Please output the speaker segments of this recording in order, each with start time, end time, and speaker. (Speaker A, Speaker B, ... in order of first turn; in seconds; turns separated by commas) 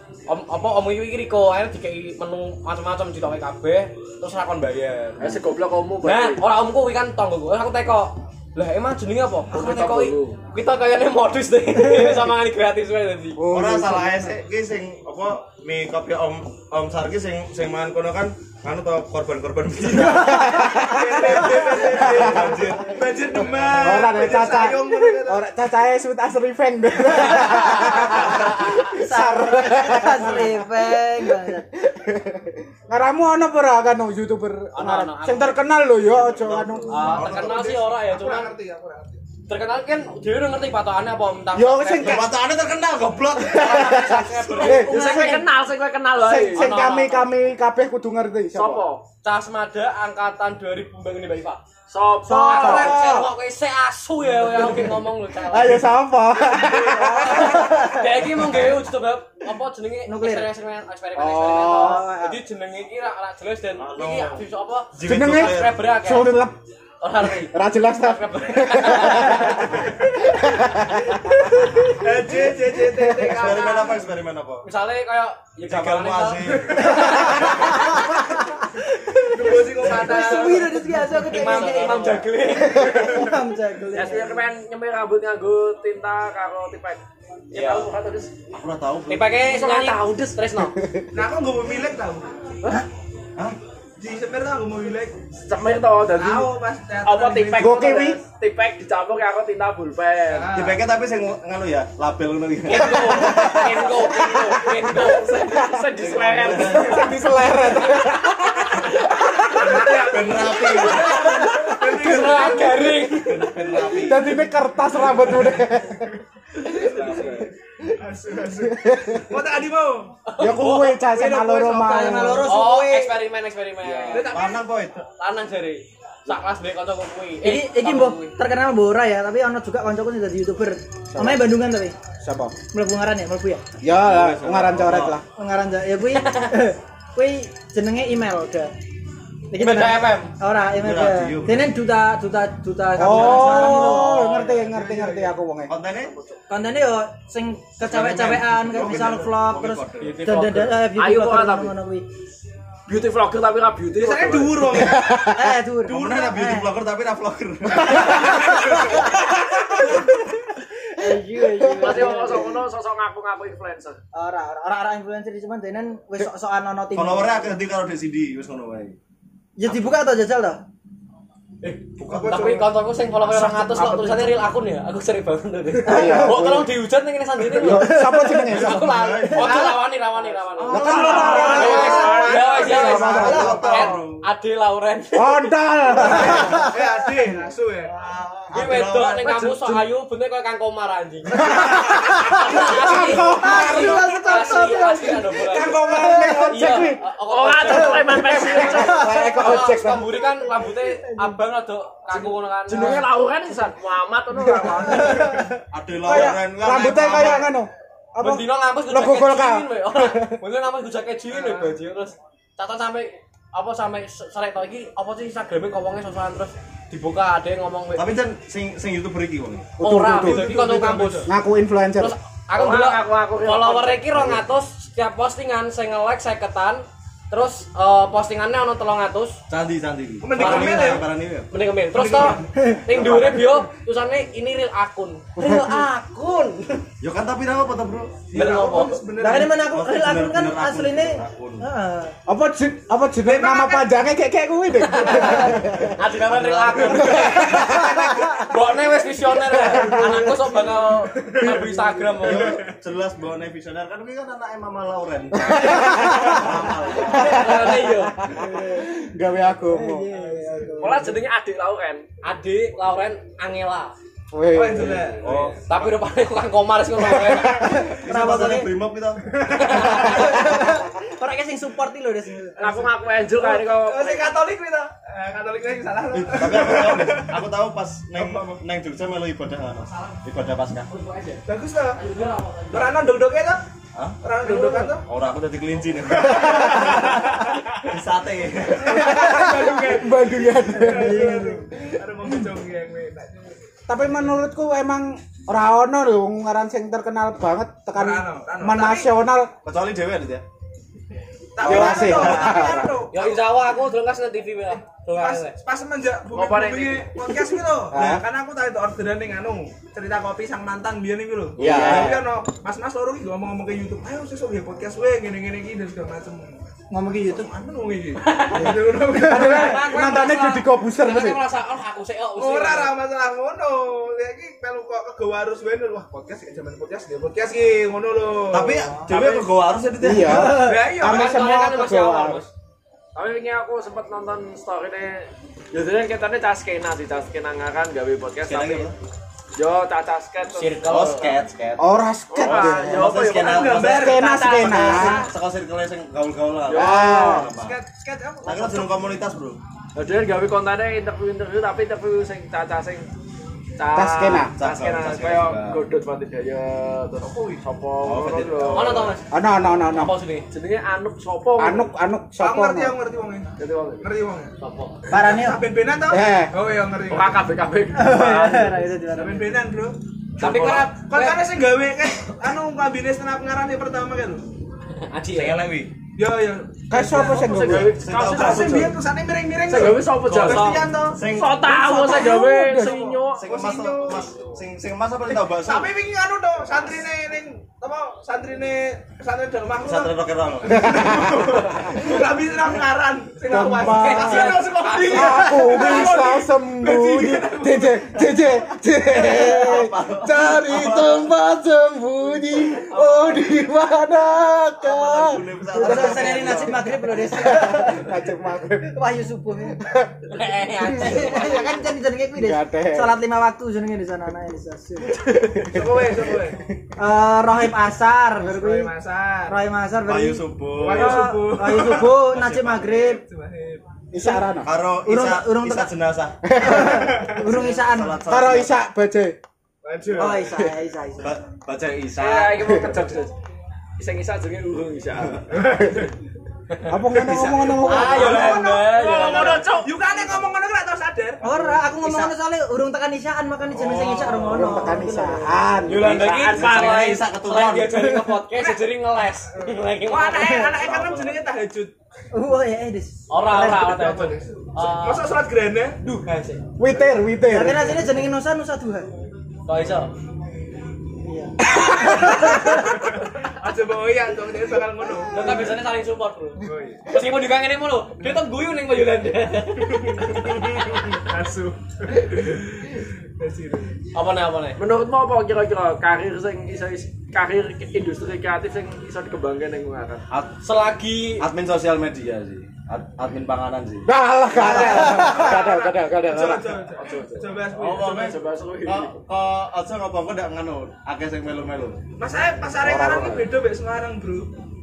Speaker A: 0.3-5.3, Speaker B: 5.2-6.4, Speaker A: 6.0-13.4, Speaker B: 9.5-10.3, Speaker C: 13.3-14.3, Speaker D: 13.5-20.5, Speaker C: 20.1-22.8, Speaker E: 20.5-25.4, Speaker D: 21.8-24.6, Speaker C: 23.8-37.2, Speaker F: 27.8-31.6, Speaker A: 34.7-35.6, Speaker D: 36.1-37.7, Speaker A: 36.9-38.5, Speaker E: 37.0-39.2, Speaker A: 39.5-42.3, Speaker C: 41.5-42.3, Speaker D: 42.0-44.8, Speaker A: 43.5-45.4, Speaker C: 43.5-45.5, Speaker B: 44.7-46.7, Speaker C: 46.1-48.8, Speaker A: 46.5-47.3, Speaker B: 48.5-49.0, Speaker A: 49.2-51.6, Speaker B: 51.9-53.0, Speaker C: 52.3-53.3, Speaker A: 52.3-55.8, Speaker C: 55.5-58.0, Speaker F: 56.7-58.4, Speaker A: 57.0-66.4, Speaker F: 60.1-60.5, Speaker C: 61.1-62.0, Speaker F: 61.7-62.4, Speaker D: 63.8-65.8, Speaker C: 65.0-66.5, Speaker A: 67.0-69.7, Speaker C: 67.2-72.1, Speaker E: 71.9-74.1, Speaker C: 72.9-73.3, Speaker D: 73.3-74.7, Speaker A: 74.6-78.0, Speaker D: 75.6-77.8, Speaker F: 77.8-78.5, Speaker E: 79.3-80.8, Speaker F: 79.4-84.5, Speaker D: 79.7-80.2, Speaker A: 81.0-83.3, Speaker B: 81.5-82.2, Speaker B: 83.9-88.3, Speaker A: 87.5-87.9, Speaker D: 88.5-89.3, Speaker A: 89.1-90.7, Speaker B: 89.4-90.3, Speaker C: 90.6-91.1, Speaker E: 91.1-92.3, Speaker E: 94.0-95.2, Speaker B: 95.5-96.5, Speaker E: 96.1-98.1, Speaker B: 97.0-100.5, Speaker C: 97.6-98.2, Speaker E: 100.3-100.8, Speaker D: 100.5-103.7, Speaker A: 102.7-105.3, Speaker C: 102.8-105.9, Speaker B: 104.2-107.2, Speaker D: 106.0-107.2, Speaker C: 106.7-109.7, Speaker A: 109.4-114.1, Speaker B: 109.5-111.3, Speaker E: 109.5-110.4, Speaker D: 109.9-114.4, Speaker E: 111.5-112.9, Speaker C: 114.0-116.1, Speaker E: 116.7-120.2, Speaker B: 116.7-117.4, Speaker A: 116.7-117.4, Speaker C: 118.6-119.3, Speaker A: 120.3-121.0, Speaker C: 120.4-122.6, Speaker E: 121.0-122.3, Speaker F: 121.8-123.1, Speaker A: 122.5-124.4, Speaker D: 124.1-125.1, Speaker E: 124.1-124.7, Speaker A: 125.2-128.4, Speaker F: 127.4-131.9, Speaker C: 131.1-131.6, Speaker C: 132.2-132.6, Speaker F: 132.7-133.6, Speaker C: 133.8-135.2, Speaker D: 133.9-135.2, Speaker F: 135.3-138.7, Speaker A: 136.1-136.6, Speaker F: 139.5-144.2, Speaker A: 139.5-140.3, Speaker D: 140.7-141.8, Speaker C: 142.9-145.7, Speaker D: 143.1-143.8, Speaker A: 143.5-144.0, Speaker E: 144.2-145.4, Speaker D: 145.7-146.1, Speaker F: 146.5-152.1, Speaker D: 147.8-150.3, Speaker A: 150.0-150.8, Speaker B: 150.9-151.7, Speaker B: 152.9-154.8, Speaker D: 154.0-155.0, Speaker C: 154.7-155.6, Speaker F: 155.3-156.7, Speaker D: 155.8-158.7, Speaker C: 158.9-160.2, Speaker F: 161.0-162.6, Speaker C: 161.1-162.0, Speaker B: 161.8-164.0, Speaker F: 164.1-167.6, Speaker D: 166.9-168.9, Speaker F: 169.6-170.6, Speaker D: 169.7-169.9, Speaker D: 171.9-172.7, Speaker E: 172.1-172.6, Speaker A: 172.2-185.5, Speaker B: 173.3-174.3, Speaker C: 175.8-176.7, Speaker F: 175.9-176.4, Speaker C: 177.5-178.9, Speaker F: 177.6-178.5, Speaker D: 178.4-179.8, Speaker F: 179.3-179.8, Speaker D: 180.6-184.2, Speaker C: 180.7-181.9, Speaker B: 180.8-183.2, Speaker E: 181.0-183.8, Speaker C: 182.7-183.6, Speaker C: 185.1-186.6, Speaker E: 186.0-187.9, Speaker A: 186.1-186.4, Speaker D: 187.9-189.4, Speaker A: 188.5-203.1, Speaker B: 189.2-189.8, Speaker C: 191.4-197.1, Speaker F: 192.3-196.5, Speaker B: 197.3-199.3, Speaker F: 197.7-199.7, Speaker C: 198.1-200.2, Speaker F: 200.4-201.4, Speaker B: 202.1-205.4, Speaker C: 202.7-203.0, Speaker F: 204.8-205.6, Speaker D: 205.7-207.5, Speaker C: 206.0-210.4, Speaker A: 208.2-218.1, Speaker E: 211.3-211.7, Speaker D: 217.9-219.7, Speaker C: 219.8-220.5, Speaker A: 219.8-221.3, Speaker E: 220.2-221.3, Speaker C: 221.3-222.1, Speaker A: 222.0-229.4, Speaker B: 222.5-224.0, Speaker D: 224.1-224.4, Speaker D: 229.5-231.5, Speaker E: 230.2-231.1, Speaker A: 230.3-236.8, Speaker E: 231.9-232.5, Speaker D: 232.9-233.5, Speaker C: 235.4-235.8, Speaker D: 237.0-238.3, Speaker E: 238.3-239.7, Speaker A: 238.3-239.0, Speaker F: 239.2-242.1, Speaker D: 239.3-241.7, Speaker C: 242.3-246.0, Speaker E: 243.2-243.9, Speaker A: 244.9-252.6, Speaker E: 245.1-245.3, Speaker D: 246.0-247.4, Speaker C: 246.9-248.4, Speaker C: 249.5-250.5, Speaker E: 251.1-252.7, Speaker D: 252.2-257.7, Speaker C: 255.3-256.5, Speaker C: 257.1-260.1, Speaker A: 257.2-258.2, Speaker F: 258.4-258.9, Speaker F: 259.7-261.2, Speaker E: 260.1-261.0, Speaker B: 260.8-262.0, Speaker A: 262.2-263.9, Speaker C: 264.3-265.2, Speaker E: 264.5-265.7, Speaker D: 265.2-265.8, Speaker A: 265.7-267.8, Speaker C: 267.0-267.9, Speaker F: 267.6-268.7, Speaker D: 268.0-269.3, Speaker E: 269.4-269.7, Speaker A: 269.5-270.2, Speaker F: 269.7-272.8, Speaker C: 270.0-270.7, Speaker B: 272.6-274.4, Speaker E: 273.3-277.4, Speaker D: 276.1-280.9, Speaker E: 278.1-278.6, Speaker A: 280.9-283.1, Speaker E: 281.4-282.1, Speaker E: 282.7-283.6, Speaker D: 283.9-289.2, Speaker E: 284.2-285.1, Speaker E: 286.1-287.9, Speaker E: 288.8-293.7, Speaker C: 288.9-291.5, Speaker F: 289.4-289.6, Speaker F: 290.7-291.6, Speaker C: 293.9-299.5, Speaker E: 297.9-299.1, Speaker D: 299.6-300.4, Speaker E: 301.5-303.4, Speaker C: 301.6-303.0, Speaker A: 301.6-302.3, Speaker D: 301.7-302.6, Speaker A: 303.1-305.5, Speaker E: 305.1-316.6, Speaker B: 306.4-307.0, Speaker C: 307.9-308.2, Speaker D: 307.9-308.2, Speaker C: 311.6-312.2, Speaker D: 311.6-312.2, Speaker F: 316.9-317.5, Speaker E: 317.2-320.2, Speaker A: 318.2-322.9, Speaker C: 319.1-321.4, Speaker E: 322.4-329.4, Speaker D: 328.5-330.7, Speaker C: 330.0-332.4, Speaker F: 330.2-330.8, Speaker E: 330.6-331.3, Speaker A: 330.9-332.5, Speaker B: 333.1-338.9, Speaker D: 338.4-338.9, Speaker B: 339.6-340.9, Speaker A: 340.5-341.4, Speaker D: 340.9-341.8, Speaker C: 341.8-343.1, Speaker B: 342.3-345.3, Speaker D: 342.4-347.8, Speaker E: 343.4-345.2, Speaker C: 343.9-345.2, Speaker B: 346.7-347.4, Speaker C: 346.7-347.5, Speaker E: 347.5-349.0, Speaker D: 348.4-349.6, Speaker B: 349.9-353.1, Speaker B: 353.8-359.1, Speaker C: 353.9-354.5, Speaker D: 354.5-355.8, Speaker E: 357.2-357.6, Speaker D: 358.0-359.1, Speaker A: 358.7-360.4, Speaker C: 359.3-360.1, Speaker B: 360.5-361.9, Speaker C: 361.6-362.9, Speaker E: 362.4-363.5, Speaker B: 363.6-364.1, Speaker E: 364.0-364.5, Speaker A: 364.6-365.0, Speaker F: 365.1-365.6, Speaker E: 365.1-367.4, Speaker C: 366.1-366.5, Speaker B: 367.1-368.8, Speaker F: 367.9-369.6, Speaker E: 369.1-374.4, Speaker A: 370.4-371.4, Speaker D: 370.4-370.8, Speaker A: 375.0-375.6, Speaker D: 375.3-375.9, Speaker E: 376.2-377.6, Speaker C: 376.9-377.9, Speaker B: 377.3-379.0, Speaker D: 377.6-378.9, Speaker E: 378.2-381.2, Speaker B: 379.6-383.6, Speaker D: 380.3-381.7, Speaker C: 381.6-383.2, Speaker E: 382.8-384.5, Speaker D: 383.3-385.9, Speaker E: 385.3-398.1, Speaker D: 389.8-391.0, Speaker C: 390.7-391.9, Speaker C: 393.5-406.1, Speaker A: 393.8-395.8, Speaker B: 395.6-396.1, Speaker D: 399.1-401.3, Speaker D: 402.8-403.7, Speaker D: 404.8-406.9, Speaker F: 405.7-408.2, Speaker C: 407.3-409.0, Speaker F: 408.9-409.9, Speaker C: 409.8-410.1, Speaker A: 410.3-411.7, Speaker F: 410.8-415.2, Speaker C: 412.3-413.2, Speaker C: 415.1-416.2, Speaker E: 415.6-416.6, Speaker F: 417.0-418.9, Speaker E: 418.4-419.6, Speaker F: 419.5-420.5, Speaker D: 420.0-422.9, Speaker E: 420.8-424.0, Speaker F: 421.2-423.2, Speaker C: 424.1-424.7, Speaker D: 424.6-426.4, Speaker F: 425.0-425.9, Speaker C: 426.5-427.3, Speaker F: 426.6-428.2, Speaker E: 426.9-427.4, Speaker D: 427.5-428.8, Speaker C: 428.3-429.4, Speaker E: 429.8-430.6, Speaker F: 430.1-431.4, Speaker D: 431.2-432.7, Speaker B: 432.1-433.3, Speaker C: 432.6-433.0, Speaker B: 434.0-435.8, Speaker E: 435.5-436.1, Speaker C: 436.9-438.6, Speaker E: 437.2-441.5, Speaker B: 437.8-439.9, Speaker A: 437.9-439.8, Speaker F: 441.4-445.7, Speaker E: 443.7-444.4, Speaker D: 443.8-444.6, Speaker C: 444.5-446.2, Speaker D: 445.8-448.1, Speaker B: 445.9-447.2, Speaker A: 445.9-450.7, Speaker E: 448.6-448.8, Speaker E: 449.5-451.9, Speaker D: 450.7-451.5, Speaker F: 452.3-454.0, Speaker A: 453.3-455.3, Speaker E: 453.6-456.0, Speaker A: 456.0-456.6, Speaker C: 456.8-458.0, Speaker F: 457.4-459.1, Speaker A: 459.7-460.1, Speaker F: 461.2-463.0, Speaker C: 461.8-462.5, Speaker E: 463.0-465.7, Speaker A: 465.3-470.6, Speaker E: 466.6-467.1, Speaker E: 470.1-473.9, Speaker A: 474.1-474.8, Speaker B: 474.8-480.2, Speaker D: 480.3-480.6, Speaker A: 480.6-481.5, Speaker D: 481.4-485.5, Speaker C: 484.1-486.8, Speaker A: 484.5-485.4, Speaker E: 484.9-488.3, Speaker B: 486.9-489.1, Speaker D: 487.8-492.0, Speaker E: 492.2-494.5, Speaker C: 492.8-493.4